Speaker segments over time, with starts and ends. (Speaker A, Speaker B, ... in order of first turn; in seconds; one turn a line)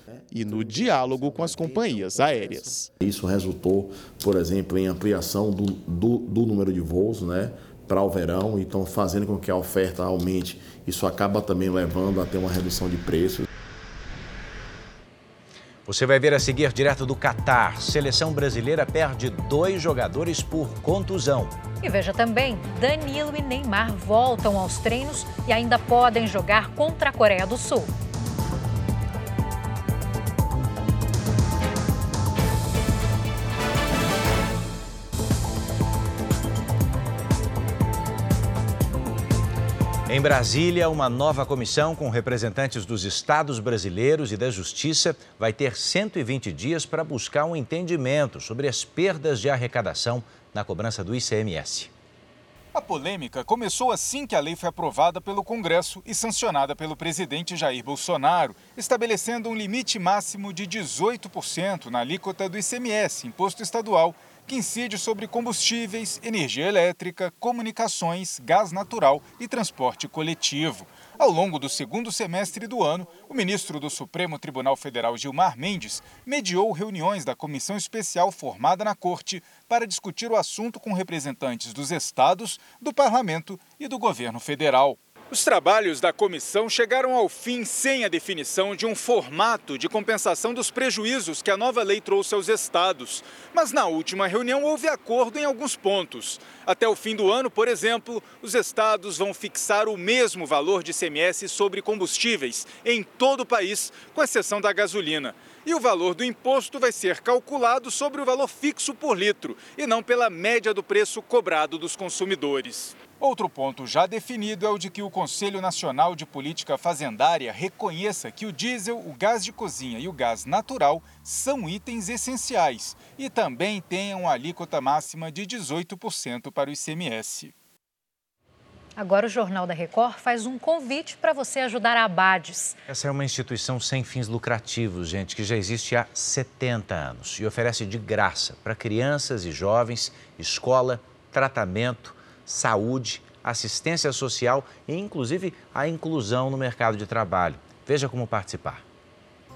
Speaker A: 0.3-2.9
Speaker B: 1.4-2.5
Speaker B: 3.0-13.5
Speaker C: 15.9-21.6
Speaker D: 21.8-27.9
Speaker C: 40.1-51.9
Speaker E: 52.7-127.5
Speaker D: 129.0-132.8
Speaker C: 132.9-148.8